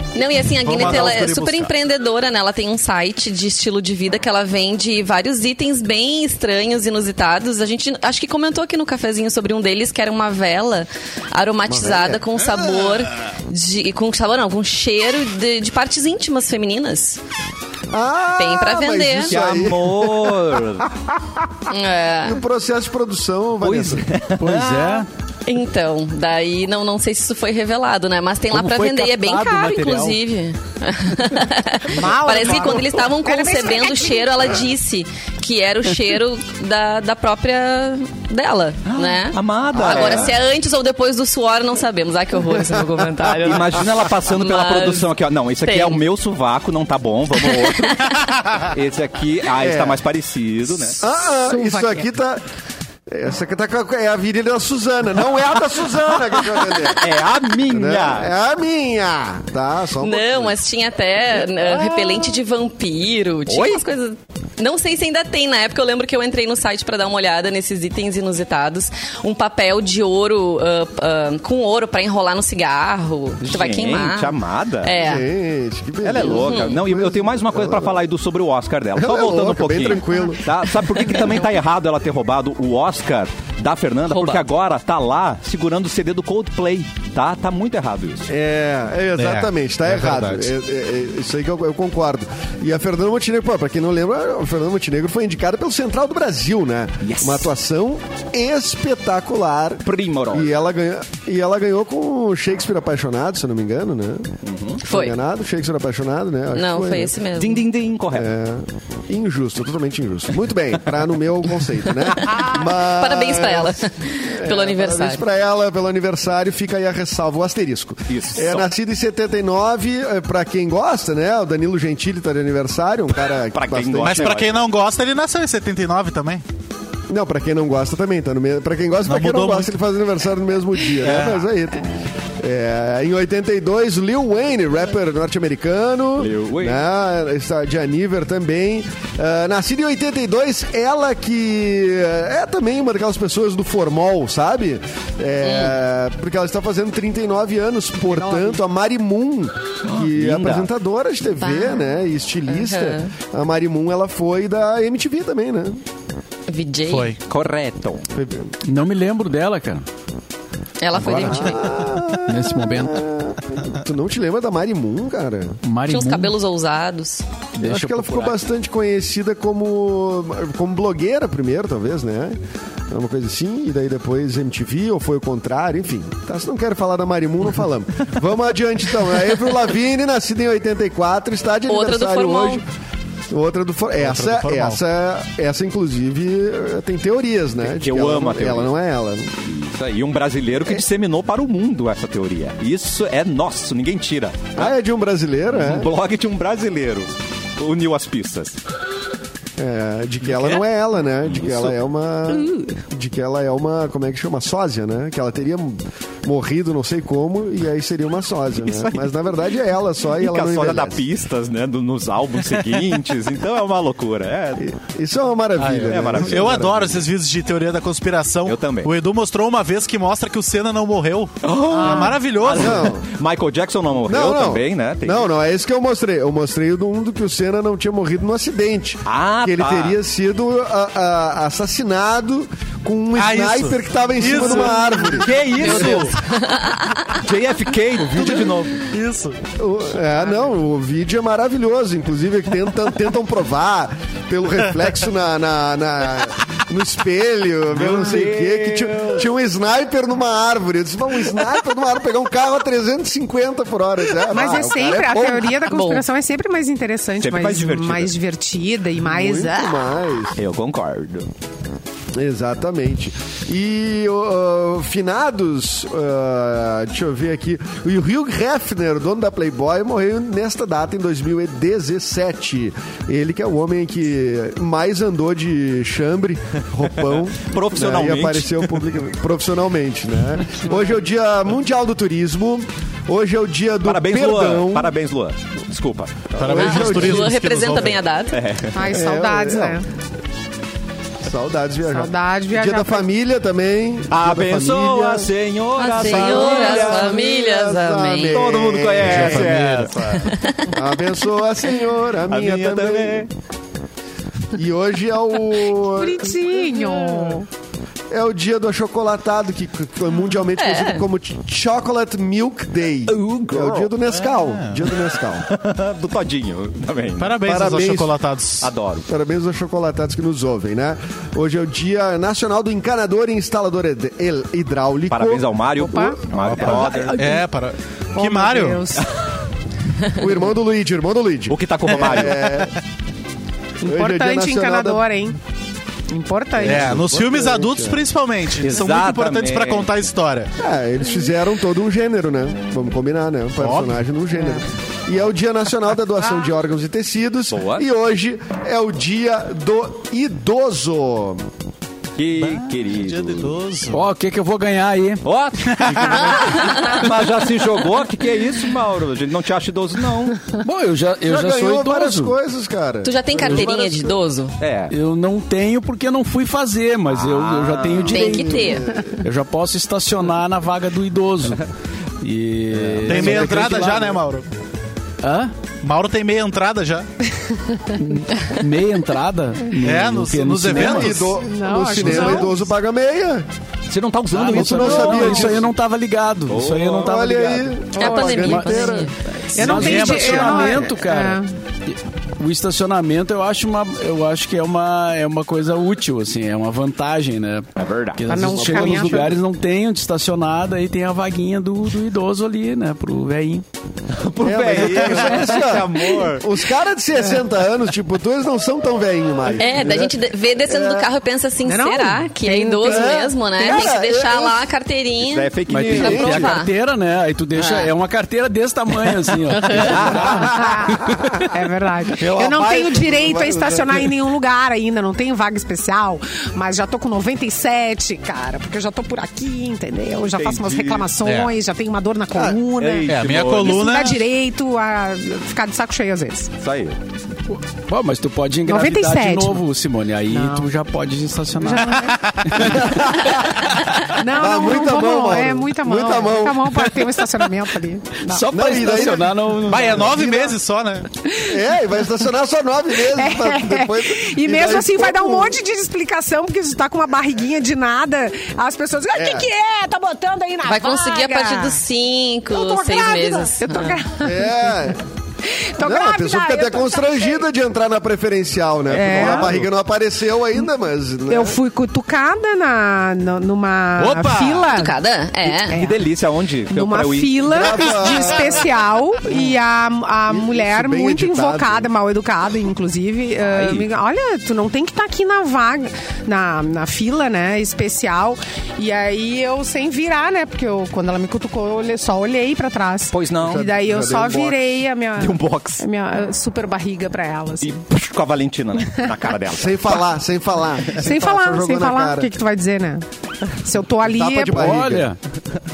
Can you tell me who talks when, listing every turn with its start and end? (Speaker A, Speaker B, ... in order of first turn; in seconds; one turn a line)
Speaker A: 0.1-17.2
Speaker B: 0.4-1.7
Speaker C: 11.7-12.6
Speaker C: 17.9-20.8
Speaker A: 18.4-19.4
Speaker D: 19.1-20.9
Speaker A: 21.7-22.4
Speaker C: 22.2-24.1
Speaker D: 23.6-25.0
Speaker E: 24.4-25.1
Speaker A: 25.4-45.1
Speaker E: 28.5-30.2
Speaker F: 31.9-34.4
Speaker D: 38.8-40.4
Speaker C: 39.8-40.3
Speaker D: 43.4-51.0
Speaker A: 45.6-46.0
Speaker A: 47.6-48.1
Speaker C: 49.5-50.0
Speaker C: 51.0-52.4
Speaker F: 51.5-52.1
Speaker C: 53.1-57.0
Speaker D: 57.0-58.3
Speaker C: 57.7-60.6
Speaker A: 60.0-75.3
Speaker D: 61.8-62.3
Speaker D: 63.5-63.8
Speaker D: 73.4-74.9
Speaker C: 75.0-78.0
Speaker D: 76.0-88.3
Speaker A: 76.2-76.8
Speaker C: 79.0-80.4
Speaker A: 84.1-84.4
Speaker C: 88.3-107.1
Speaker B: 89.2-90.5
Speaker D: 97.0-97.5
Speaker D: 99.8-100.5
Speaker D: 104.4-104.8
Speaker A: 104.8-105.2
Speaker A: 106.5-107.6
Speaker D: 107.4-108.3
Speaker C: 108.1-124.4
Speaker A: 112.2-115.2
Speaker D: 118.1-118.7
Speaker D: 123.5-124.6
Speaker B: 124.0-126.4
Speaker C: 127.1-155.8
Speaker B: 129.1-129.7
Speaker B: 131.0-131.4
Speaker D: 136.2-136.8
Speaker A: 145.4-145.8
Speaker F: 148.1-148.6
Speaker D: 149.8-150.7
Speaker A: 151.5-151.8
Speaker A: 152.5-153.1
Speaker A: 156.5-157.2
Speaker B: 156.9-157.2
Speaker D: 157.2-158.1
Speaker C: 158.1-158.5
Speaker E: 158.6-159.8
Speaker A: 160.8-161.8
Speaker C: 160.9-165.6
Speaker E: 162.1-163.0
Speaker E: 165.6-166.4
Speaker A: 165.8-167.2
Speaker C: 167.6-172.4
Speaker E: 167.6-168.3
Speaker C: 172.9-182.6
Speaker A: 181.7-182.6
Speaker C: 183.3-189.3
Speaker B: 184.0-184.8
Speaker D: 187.7-188.7
Speaker D: 189.4-194.7
Speaker C: 194.6-195.9
Speaker D: 195.5-198.6
Speaker C: 199.6-211.0
Speaker D: 201.3-201.8
Speaker D: 208.6-209.1
Speaker D: 210.2-214.7
Speaker C: 214.6-217.0
Speaker B: 215.6-222.9
Speaker D: 215.9-216.6
Speaker D: 218.4-218.9
Speaker D: 221.4-225.3
Speaker F: 221.7-222.2
Speaker C: 222.6-223.1
Speaker C: 224.0-236.0
Speaker D: 229.0-230.0
Speaker B: 233.2-235.9
Speaker D: 235.1-236.2
Speaker A: 235.7-237.2
Speaker D: 237.1-238.9
Speaker B: 238.1-239.4
Speaker C: 239.6-255.6
Speaker D: 247.7-249.3
Speaker F: 254.2-259.8
Speaker A: 255.7-256.0
Speaker D: 257.2-258.1
Speaker C: 259.0-260.4
Speaker D: 260.4-261.3
Speaker C: 262.1-284.9
Speaker D: 277.0-278.8
Speaker D: 283.8-286.3
Speaker C: 286.3-287.3
Speaker B: 286.4-288.0
Speaker A: 286.5-288.4
Speaker D: 288.3-288.8
Speaker F: 288.7-289.8
Speaker C: 288.8-289.8
Speaker C: 291.2-295.3
Speaker F: 291.9-293.1
Speaker D: 294.1-297.1
Speaker A: 295.8-298.4
Speaker C: 295.9-299.6
Speaker D: 298.3-300.3
Speaker B: 299.0-300.3
Speaker A: 300.2-300.7
Speaker C: 300.7-303.3
Speaker D: 302.3-303.3
Speaker C: 304.5-306.6
Speaker F: 305.9-307.5
Speaker C: 308.1-315.5
Speaker A: 310.6-311.0
Speaker D: 313.1-313.9
Speaker B: 314.2-314.8
Speaker D: 315.5-317.4
Speaker B: 317.2-318.7
Speaker C: 317.4-318.2
Speaker D: 318.6-319.1
Speaker C: 319.1-325.6
Speaker D: 325.1-327.3
Speaker F: 325.8-327.5
Speaker B: 326.3-328.9
Speaker F: 328.1-329.1
Speaker C: 330.1-332.7
Speaker D: 331.5-332.6
Speaker F: 333.8-335.4
Speaker C: 333.8-335.0
Speaker F: 336.1-337.0
Speaker C: 336.6-338.0
Speaker B: 336.6-340.5
Speaker D: 338.6-339.9
Speaker C: 340.6-351.4
Speaker B: 343.6-344.0
Speaker F: 344.3-344.6
Speaker D: 347.5-347.8
Speaker D: 352.1-353.6
Speaker B: 352.4-354.0
Speaker E: 353.9-355.2
Speaker D: 355.2-360.4
Speaker B: 355.7-356.3
Speaker A: 356.1-357.0
Speaker E: 360.6-362.4
Speaker C: 361.2-364.1
Speaker A: 363.0-364.6
Speaker D: 364.6-364.9
Speaker E: 364.9-371.6
Speaker D: 367.1-368.3
Speaker A: 368.1-368.9
Speaker C: 368.6-369.1
Speaker E: 372.2-374.2
Speaker D: 372.9-373.4
Speaker B: 373.0-374.4
Speaker E: 375.2-375.5
Speaker B: 375.8-377.1
Speaker E: 377.9-381.2
Speaker B: 379.8-381.4
Speaker C: 380.7-383.5
Speaker F: 381.4-382.6
Speaker D: 383.9-385.6
Speaker E: 384.3-403.6
Speaker C: 384.5-385.6
Speaker D: 386.5-387.1
Speaker C: 387.0-389.0
Speaker A: 387.9-389.1
Speaker F: 388.0-388.9
Speaker F: 389.5-391.5
Speaker B: 389.6-390.8
Speaker D: 397.8-398.3
Speaker F: 398.3-399.4
Speaker C: 398.6-399.3
Speaker D: 404.1-406.5
Speaker C: 404.4-410.1
Speaker A: 409.6-416.7
Speaker C: 410.6-411.1
Speaker F: 411.6-413.3
Speaker C: 412.8-414.6
Speaker D: 415.2-416.5
Speaker E: 415.7-420.7
Speaker A: 417.5-417.9
Speaker D: 419.8-420.5
Speaker F: 420.3-436.5
Speaker C: 420.8-421.4
Speaker C: 422.2-424.1
Speaker D: 430.3-431.1
Speaker B: 431.2-431.5
Speaker D: 432.7-433.8
Speaker B: 433.1-434.2
Speaker D: 436.6-437.0
Speaker E: 437.5-443.1
Speaker F: 438.6-439.6
Speaker F: 440.3-440.7
Speaker F: 441.6-442.2
Speaker B: 442.2-442.6
Speaker C: 442.6-443.6
Speaker F: 444.1-449.1
Speaker C: 444.3-446.8
Speaker E: 448.2-450.2
Speaker C: 448.5-449.4
Speaker B: 449.6-451.1
Speaker C: 449.9-450.6
Speaker F: 451.3-452.0
Speaker C: 451.4-455.6
Speaker F: 453.0-461.8
Speaker C: 459.1-459.5
Speaker A: 460.6-464.0
Speaker F: 462.5-464.8
Speaker C: 464.2-465.0
Speaker F: 465.5-467.4
Speaker C: 465.8-471.6
Speaker F: 468.9-469.6
Speaker D: 469.0-469.5
Speaker F: 471.3-474.9
Speaker B: 474.0-474.6
Speaker A: 474.7-475.8
Speaker F: 475.5-476.1
Speaker D: 475.7-477.8
Speaker F: 476.7-497.8
Speaker C: 477.4-478.7
Speaker C: 480.3-481.9
Speaker D: 483.4-483.9
Speaker D: 493.1-493.8
Speaker C: 493.5-494.6
Speaker D: 495.1-495.8
Speaker D: 497.6-500.1
Speaker C: 499.5-502.3
Speaker F: 500.9-503.0
Speaker F: 503.6-504.8
Speaker C: 504.0-505.1
Speaker E: 504.5-505.2